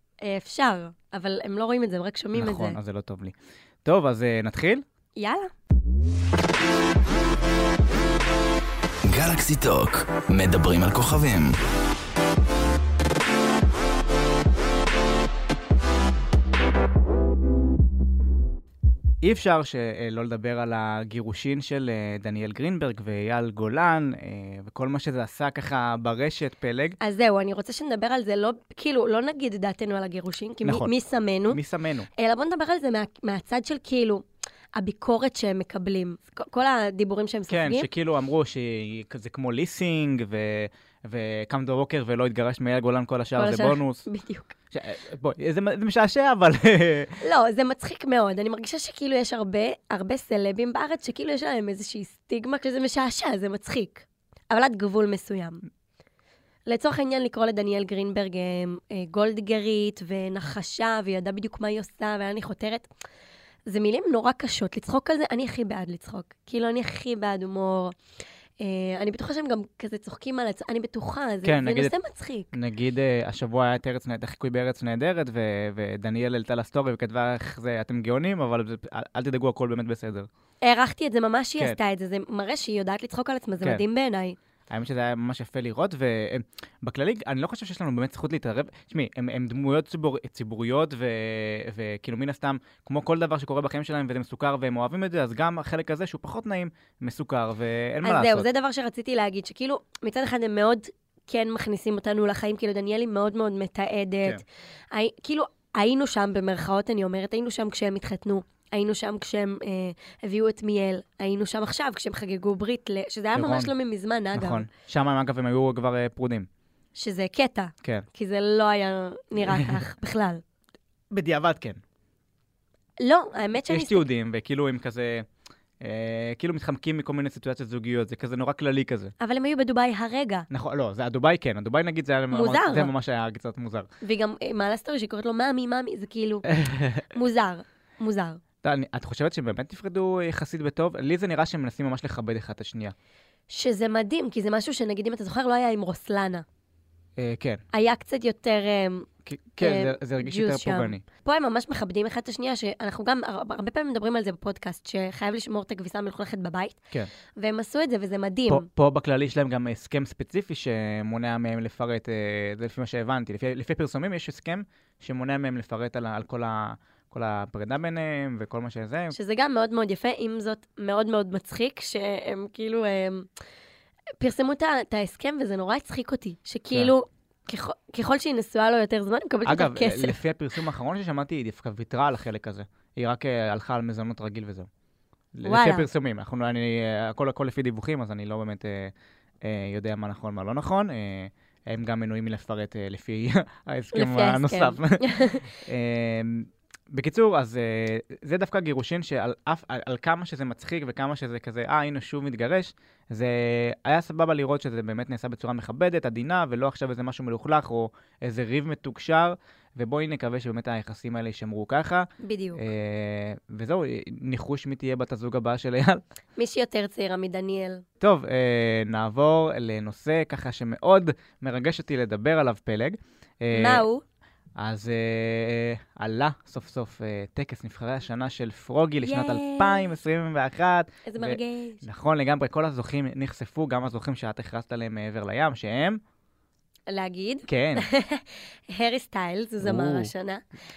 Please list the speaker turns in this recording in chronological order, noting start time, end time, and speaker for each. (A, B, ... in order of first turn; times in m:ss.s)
0:00.2-0:02.8 A
0:02.3-0:04.8 B
0:05.2-0:05.5 A
0:09.0-0:11.6 C
0:19.2-0:27.0 B
0:27.0-0:31.6 A
0:30.6-0:30.9 B
0:31.5-0:32.1 B
0:32.1-0:34.2 A
0:34.8-0:37.9 A
0:37.5-0:44.0 B
0:43.4-0:44.5 A
0:44.7-0:47.2 B
0:47.2-0:55.6 A
0:56.7-1:02.9 A
1:03.7-1:08.0 A
1:08.6-1:12.5 A
1:11.4-1:11.9 B
1:12.5-1:20.3 B
1:20.6-1:24.4 A
1:24.7-1:38.5 B
1:38.0-1:54.7 A
1:53.4-1:53.7 B
1:54.4-1:56.5 B
1:57.0-2:00.4 A
1:59.4-1:59.8 B
2:01.1-2:01.8 B
2:03.0-2:04.0 A
2:03.7-2:05.3 B
2:05.8-2:09.1 B
2:09.2-2:10.5 A
2:10.5-2:13.9 B
2:12.3-2:12.9 A
2:14.0-2:16.5 A
2:16.5-2:17.1 B
2:17.1-2:18.4 A
2:18.6-2:22.9 B
2:23.5-2:26.4 A
2:27.2-2:27.6 B
2:27.7-2:29.1 A
2:29.3-2:31.0 B
2:29.6-2:36.8 A
2:37.4-2:38.7 A
2:38.5-2:49.2 B
2:49.1-2:53.3 A
2:54.2-3:00.2 A
2:59.5-3:04.7 B
3:05.3-3:36.0 B
3:05.4-3:05.9 A
3:13.9-3:15.5 A
3:32.2-3:32.6 A
3:36.4-3:37.8 A
3:38.0-3:43.9 B
3:43.5-3:44.0 A
3:44.6-3:56.0 B
3:49.0-3:49.9 A
3:51.1-3:51.8 A
3:56.9-4:00.4 A
3:57.5-3:57.9 B
3:59.6-4:00.1 B